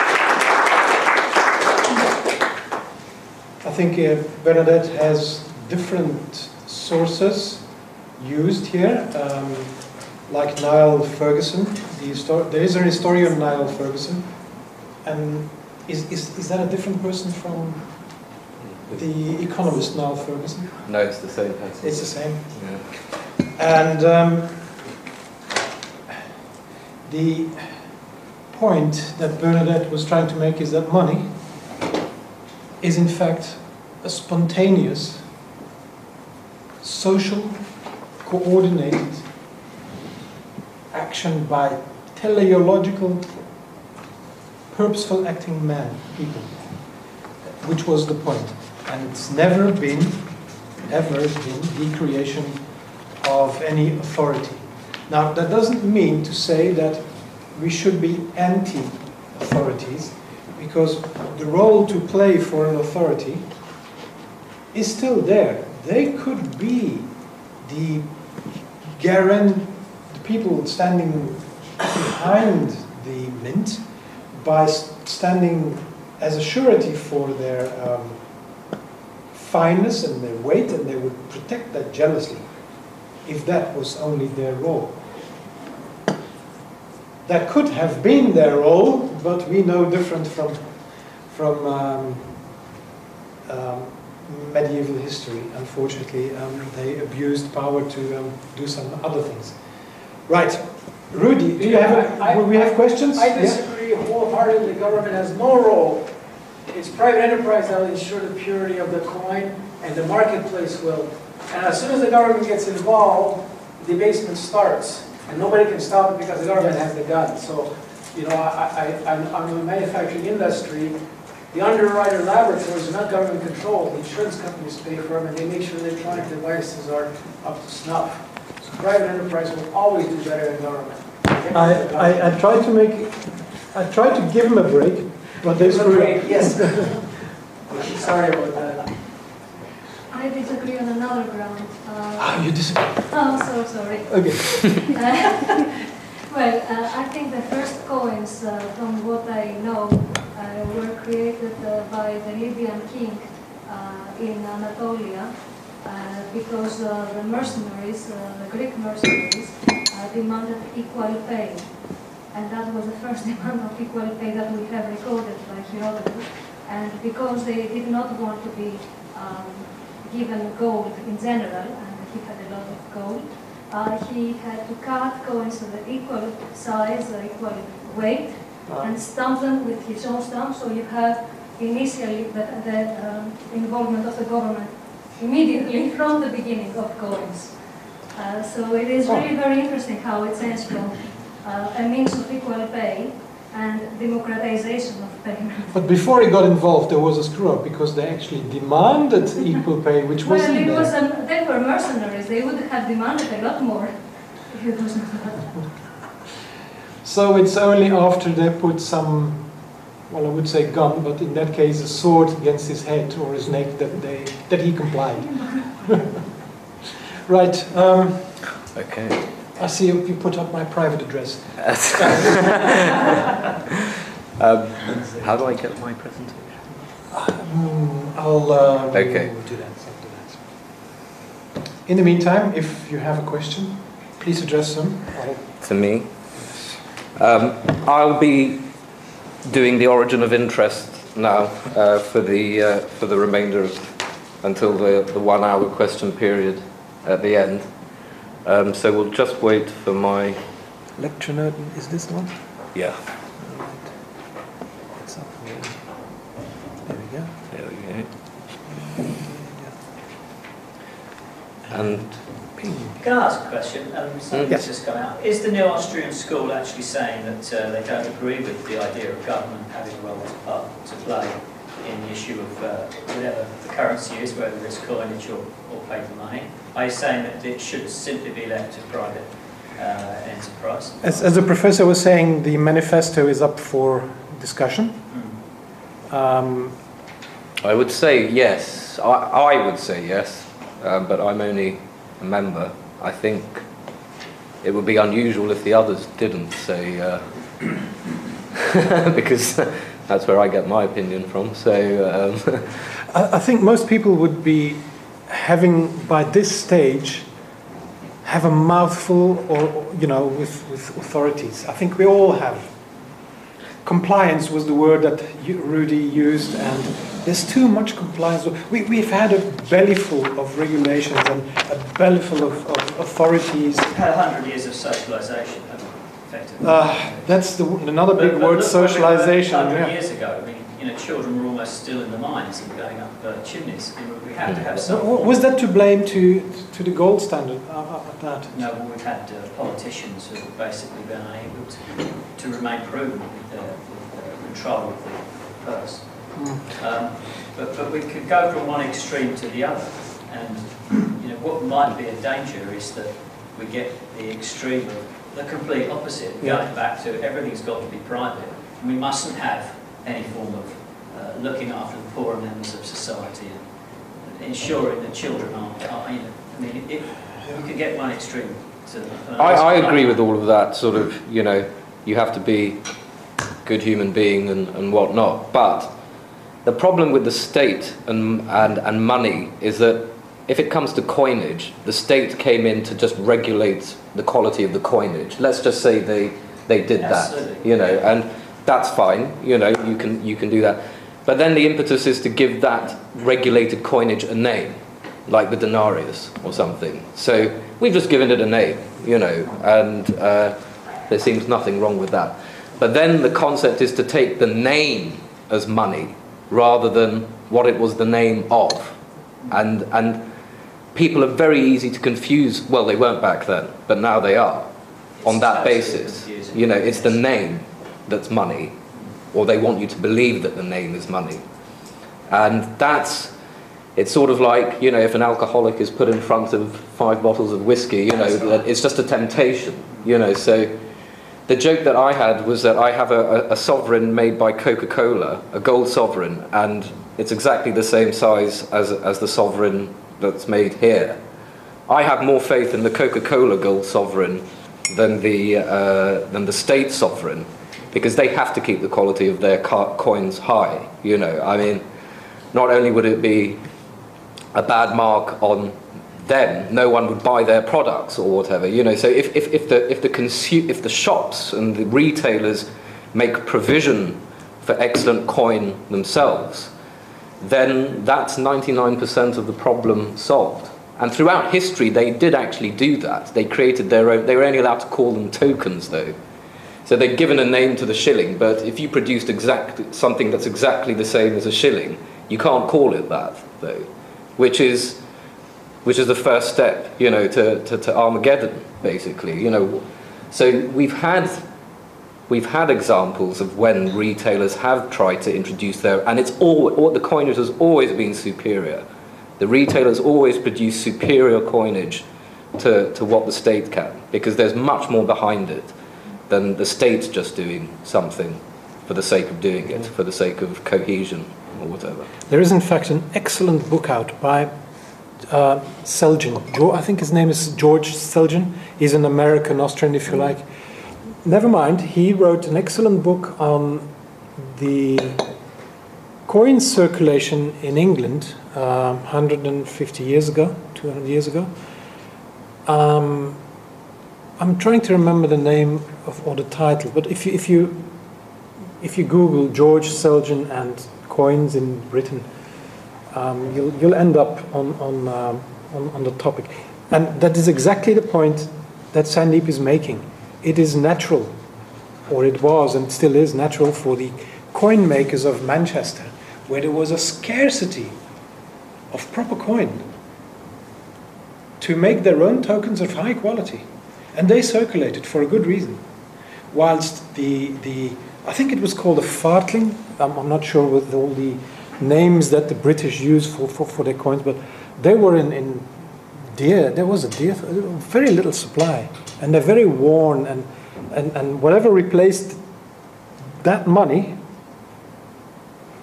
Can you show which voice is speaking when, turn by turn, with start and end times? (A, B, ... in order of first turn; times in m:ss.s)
0:03.6-0:21.2 A
0:18.6-0:19.0 B
0:20.8-0:22.9 B
0:21.8-0:24.8 A
0:27.0-0:31.7 A
0:32.8-0:35.3 A
0:36.8-0:39.3 A
0:40.9-0:43.4 A
0:44.7-1:03.8 A
1:04.7-1:18.6 A
1:19.3-1:25.3 A
1:27.2-1:32.6 A
1:33.4-1:43.7 A
1:41.6-2:12.4 C
2:11.5-2:17.0 A
2:15.5-2:19.5 C
2:20.1-2:25.6 D
2:22.2-2:23.3 A
2:24.0-2:24.9 A
2:26.3-3:15.8 D
2:58.6-2:59.0 A
3:09.0-3:09.3 A
3:15.7-3:20.9 A
3:20.2-3:25.7 D
3:27.0-3:36.1 A
3:37.2-3:38.7 A
3:38.7-3:39.3 B
3:39.5-3:42.9 A
3:41.6-3:42.3 B
3:44.4-3:46.7 B
3:47.1-3:50.8 A
3:48.9-3:49.3 B
3:51.8-3:56.6 A
3:55.6-4:10.4 B
4:11.0-4:17.5 A
4:12.7-4:13.1 B
4:17.5-4:18.4 B
4:18.6-4:19.8 A
4:21.6-4:23.0 A
4:21.7-4:22.2 B
4:23.0-4:41.4 E
4:24.3-4:24.6 B
4:24.5-4:24.7 A
4:41.0-4:45.1 A
4:45.1-4:45.3 E
4:46.1-4:46.8 A
4:47.6-4:53.9 B
4:54.6-4:57.9 B
4:58.7-5:03.0 B
5:03.1-5:07.5 A
5:08.2-5:12.8 A
5:13.8-5:23.9 A
5:23.8-5:35.4 E
5:26.6-5:29.9 A
5:34.8-5:38.6 A
5:38.5-6:10.2 E
5:46.3-5:46.7 A
5:56.4-5:56.6 A
6:09.4-6:12.8 B
6:13.6-6:16.0 B
6:16.6-6:50.2 B
6:27.0-6:27.9 E
6:50.9-7:01.4 B
6:55.1-6:57.2 E
7:02.3-7:03.3 B
7:03.9-7:10.7 B
7:08.1-7:08.6 E
7:11.5-7:21.2 B
7:21.9-7:31.8 B
7:32.5-7:33.6 B
7:34.5-7:46.7 B
7:47.4-7:56.2 B
7:56.8-8:05.0 B
8:05.8-8:11.4 B
8:12.3-8:18.8 B
8:19.4-8:25.7 B
8:26.3-8:32.1 B
8:32.3-8:34.5 A
8:35.2-8:40.5 A
8:41.2-8:45.3 A
8:46.2-8:51.5 A
8:52.6-8:53.4 A
8:54.4-8:58.2 A
8:58.8-9:02.3 A
9:03.1-9:11.4 A
9:12.0-9:18.0 A
9:18.9-9:19.8 A
9:21.6-9:25.8 A
9:26.5-9:42.4 A
9:43.4-9:44.2 A